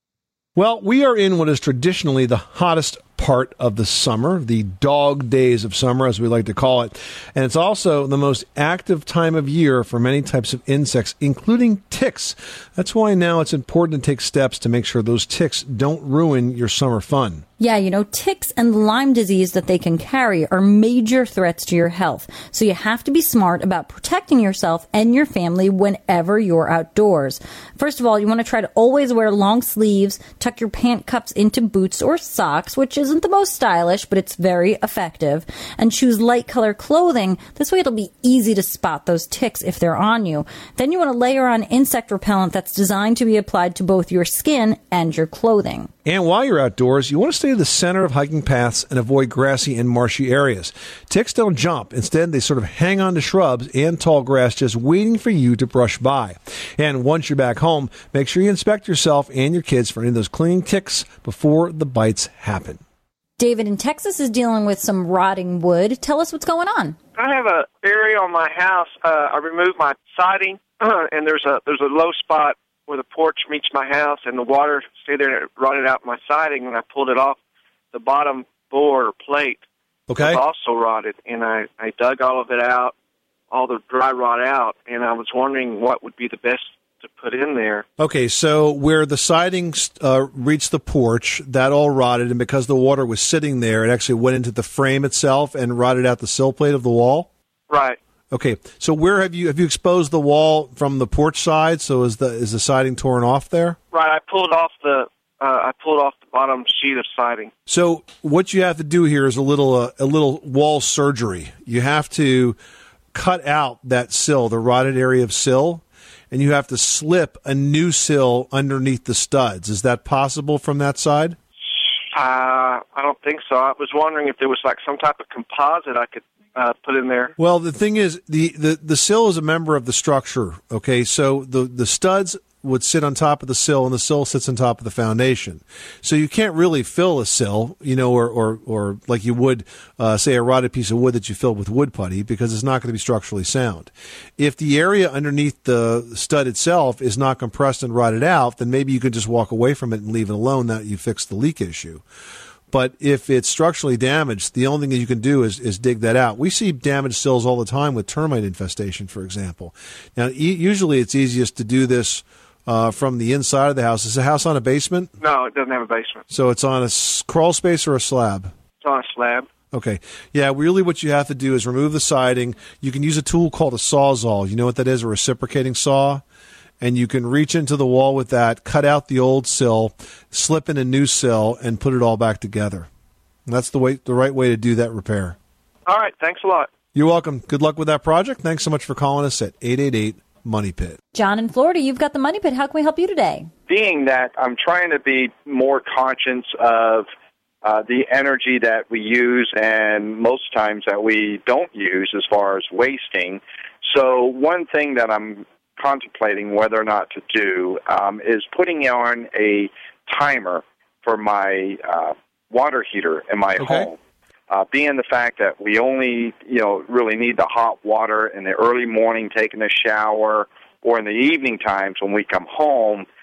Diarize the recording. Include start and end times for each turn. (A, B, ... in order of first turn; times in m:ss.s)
0:00.6-0:17.4 A
0:17.6-0:45.9 B
0:46.0-1:02.8 A
1:03.4-1:07.0 B
1:07.2-1:17.4 C
1:17.9-1:19.6 C
1:20.1-1:20.4 A
1:20.2-1:22.9 C
1:23.5-1:27.8 C
1:28.0-1:37.3 A
1:37.7-1:38.0 C
1:38.3-1:43.8 A
1:43.9-1:47.5 C
1:47.7-1:52.6 A
1:53.1-2:01.4 A
2:02.1-2:07.3 C
2:07.4-2:32.0 A
2:32.7-2:45.1 A
2:45.2-2:46.2 C
2:46.3-2:48.5 A
2:48.8-2:49.5 C
2:49.7-2:56.2 A
2:56.8-3:02.9 A
3:03.5-3:05.4 A
3:05.9-3:06.7 C
3:07.0-3:11.0 A
3:11.1-3:13.5 B
3:13.7-3:17.1 D
3:17.6-3:34.0 D
3:33.6-3:33.9 A
3:34.5-3:43.1 D